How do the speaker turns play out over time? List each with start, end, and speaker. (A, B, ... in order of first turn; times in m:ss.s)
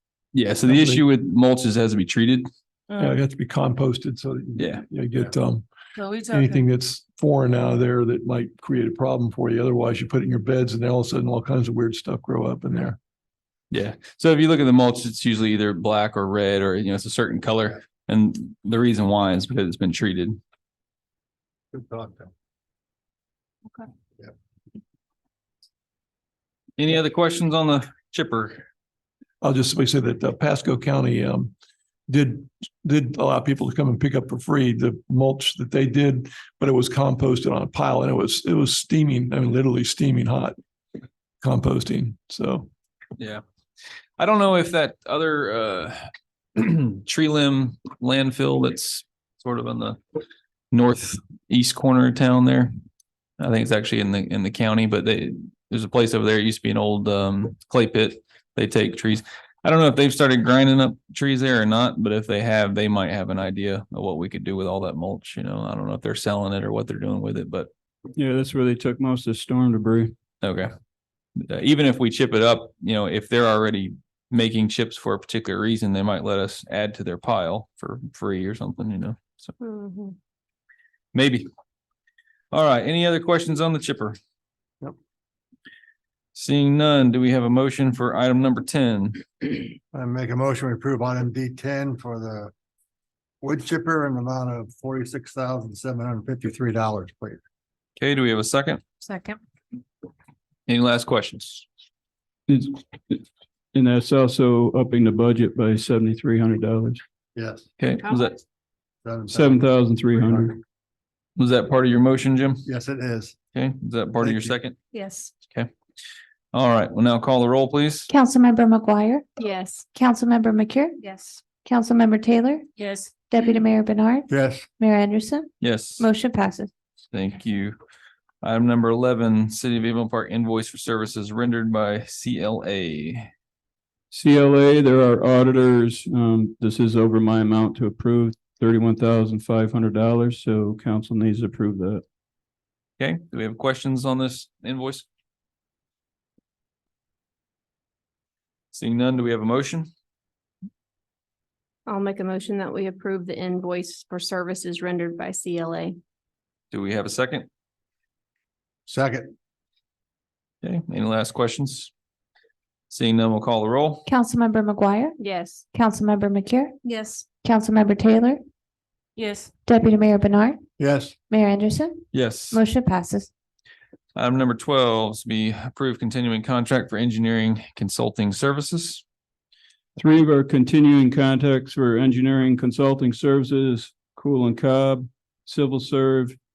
0:00.3-0:02.5 A
0:00.6-0:01.0 B
0:02.9-0:03.2 C
0:03.0-0:05.7 B
0:04.6-0:04.8 A
0:06.0-0:06.7 C
0:06.3-0:13.0 B
0:13.7-0:20.4 A
0:21.7-0:22.3 D
0:26.8-0:28.6 A
0:29.4-0:31.5 B
0:32.1-0:40.6 B
0:41.4-0:42.7 B
0:44.2-0:46.0 A
0:46.6-0:50.0 A
0:50.7-0:52.7 A
0:53.4-1:07.7 A
1:08.2-1:10.2 E
1:10.4-1:10.7 A
1:11.4-1:19.5 A
1:19.6-1:20.2 F
1:21.1-1:21.5 A
1:22.5-1:24.2 A
1:26.3-1:29.6 A
1:29.9-1:32.5 D
1:33.4-1:37.4 D
1:38.0-1:38.8 A
1:40.7-1:41.6 A
1:42.5-1:47.0 E
1:47.4-1:47.7 D
1:47.8-1:48.4 A
1:49.0-1:50.5 D
1:49.3-1:50.6 E
1:51.4-1:52.7 A
1:52.7-1:53.4 D
1:53.5-1:54.8 A
1:54.2-1:54.5 D
1:54.9-1:55.3 F
1:56.5-1:58.1 A
1:58.1-1:59.3 G
1:59.4-1:59.9 F
1:59.9-2:01.0 G
2:01.5-2:02.6 G
2:02.8-2:03.1 C
2:03.3-2:06.7 G
2:04.3-2:04.7 D
2:05.6-2:06.1 A
2:07.1-2:07.8 A
2:08.4-2:13.3 A
2:14.1-2:22.0 E
2:23.0-2:25.1 A
2:28.7-2:29.9 A
2:31.9-2:36.0 F
2:36.7-2:37.5 A
2:38.9-2:39.3 D
2:40.6-2:41.9 A
2:42.9-2:44.1 A
2:44.1-2:45.2 G
2:45.2-2:45.7 F
2:45.7-2:46.8 G
2:46.8-2:47.2 C
2:47.4-2:48.4 G
2:49.2-2:49.5 C
2:49.7-2:50.6 G
2:50.8-2:51.2 D
2:51.3-2:53.3 G
2:52.1-2:52.6 A
2:54.2-2:59.0 A
3:00.0-3:06.4 E